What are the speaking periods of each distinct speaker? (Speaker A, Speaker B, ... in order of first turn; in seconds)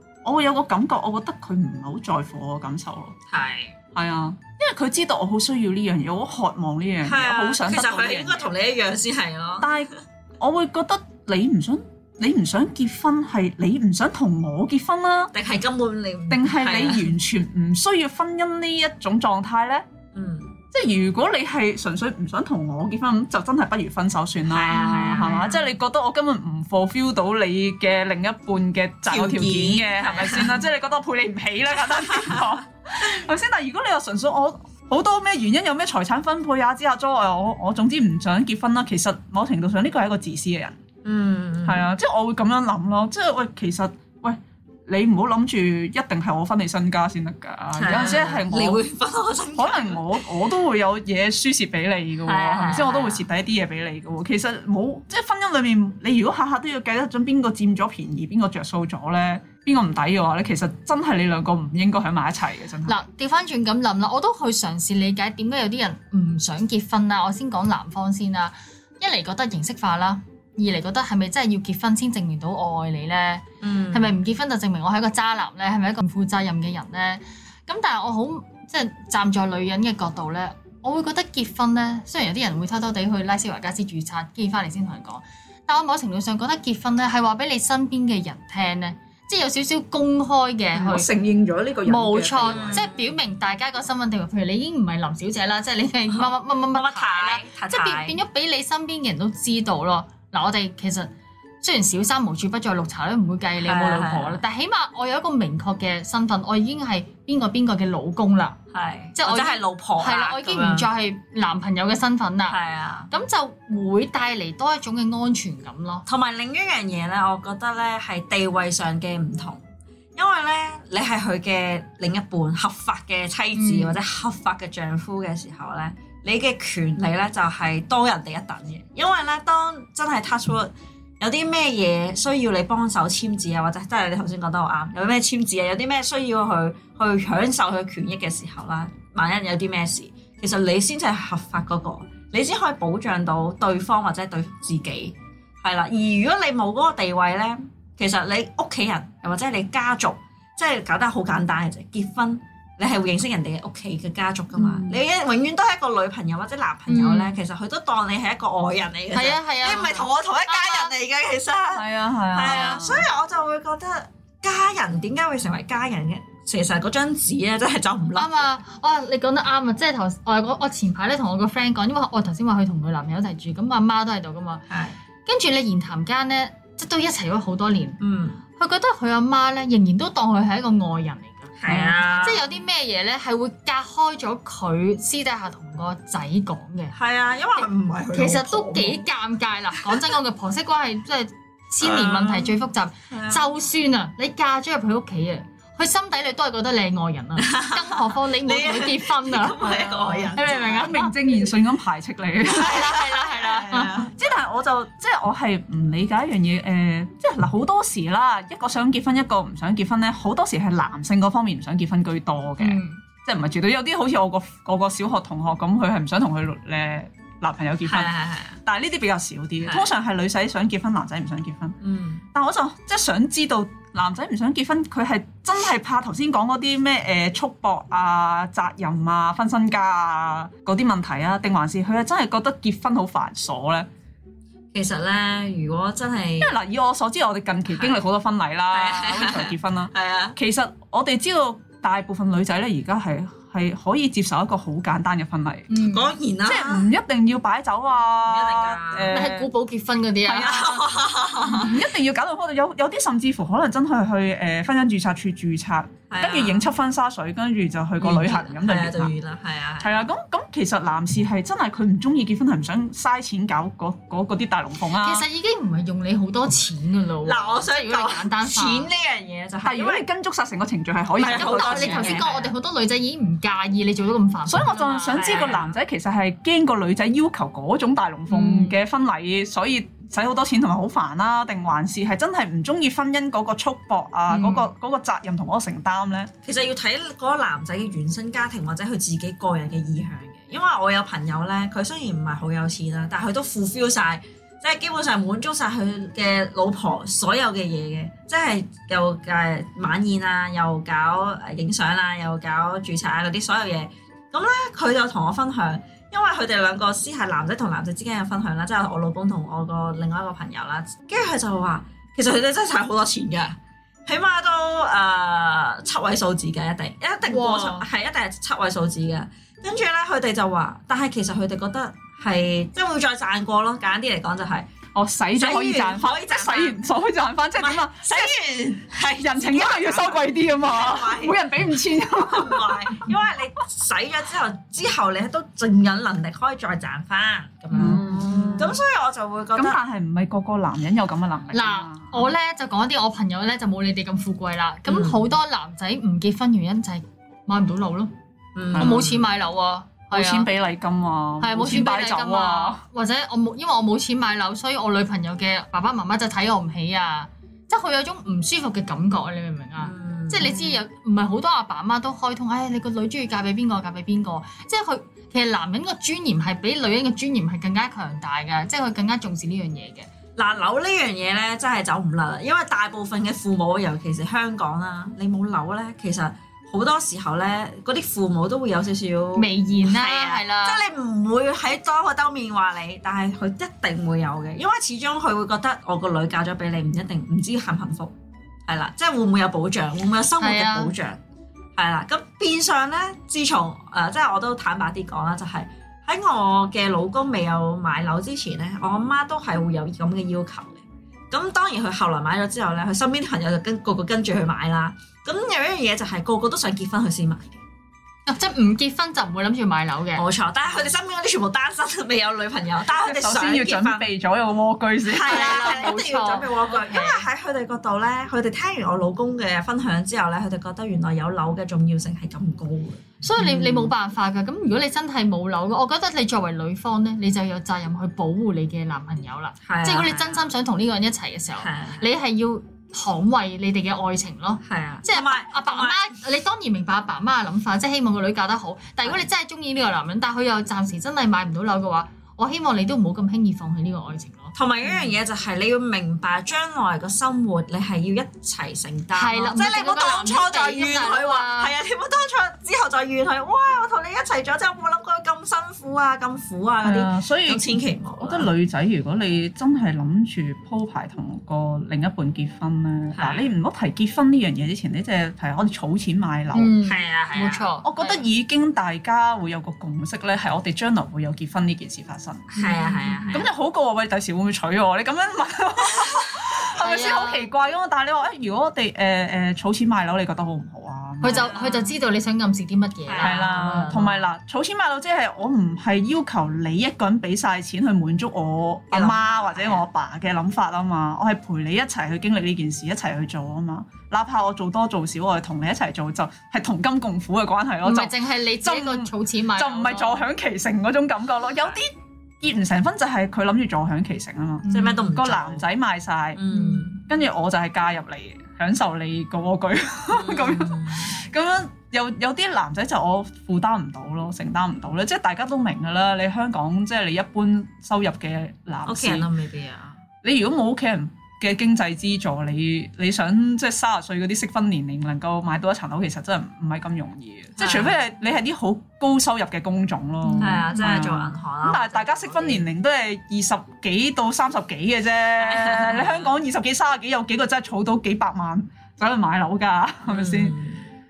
Speaker A: 0.2-3.1, 3.9-8.5, 9.6-15.3, 16.3-19.8, 20.7-40.8, 41.6-48.8, 49.5-63.0, 90.7-92.8, 154.6-155.0, 161.7-163.1, 200.5-202.9, 204.0-218.1, 218.6-221.8, 222.3-233.9, 236.4-245.7, 246.4-249.5, 250.2-250.8, 251.4-259.1, 259.8-265.2, 269.6-272.3, 274.5-286.3, 324.9-328.4, 329.1-333.0, 337.7-338.8, 339.5-342.3, 348.7-349.0, 350.1-352.8, 412.9-415.9, 456.8-466.7, 467.8-472.5, 473.3-481.4, 483.2-506.4, 507.1-519.3, 520.2-540.5
Speaker B: 3.3-3.8, 7.0-10.0, 15.3-17.1, 20.1-20.6, 24.5-25.6, 29.1-30.6, 32.0-32.5, 41.0-41.9, 47.8-50.2, 52.2-53.3, 73.6-74.1, 92.5-93.1, 96.1-98.2, 103.6-104.4, 108.7-110.9, 112.5-113.1, 116.1-119.6, 120.2-168.3, 174.7-174.9, 178.0-178.4, 181.6-182.5, 186.9-189.0, 191.8-192.6, 193.1-193.5, 197.4-200.9, 202.5-204.1, 217.8-218.6, 219.6-219.9, 221.8-222.2, 234.7-236.5, 238.7-240.4, 245.8-246.9, 248.2-249.3, 250.4-251.8, 256.1-256.7, 258.0-260.1, 267.2-270.0, 271.2-272.5, 275.1-275.8, 286.4-324.7, 325.4-326.8, 327.6-331.4, 332.1-339.8, 344.9-345.3, 348.5-349.2, 359.8-360.7, 370.4-388.1, 388.7-391.2, 391.8-407.6, 410.1-414.1, 415.1-423.9, 429.6-430.5, 431.6-432.1, 434.6-436.1, 444.6-458.5, 463.1-463.5, 466.8-467.7, 472.5-473.5, 481.2-481.9, 483.1-483.4, 488.9-489.8, 504.7-505.6, 506.4-507.0, 510.1-511.2, 518.9-520.0, 527.6-528.0, 530.4-532.6, 535.4-536.3, 540.0-540.9
Speaker C: 62.9-91.1, 91.8-101.1, 101.6-108.6, 109.2-112.6, 113.1-116.0, 123.5-124.0, 156.9-157.3, 159.1-160.9, 168.2-174.6, 175.2-178.0, 178.5-186.9, 187.6-201.1, 202.5-204.1, 212.6-213.0, 245.7-246.1, 249.1-250.8, 265.0-268.9, 271.2-275.5, 278.3-278.8, 284.3-284.7, 317.3-317.9, 337.7-338.8, 341.5-348.1, 348.7-350.5, 351.4-370.1, 379.4-380.8, 390.4-390.9, 408.3-410.2, 415.2-417.2, 423.2-445.1, 449.1-451.7, 466.5-468.2, 472.6-473.4, 476.7-477.5, 481.2-484.2, 497.8-500.2, 504.6-505.1, 506.5-506.9, 530.2-530.6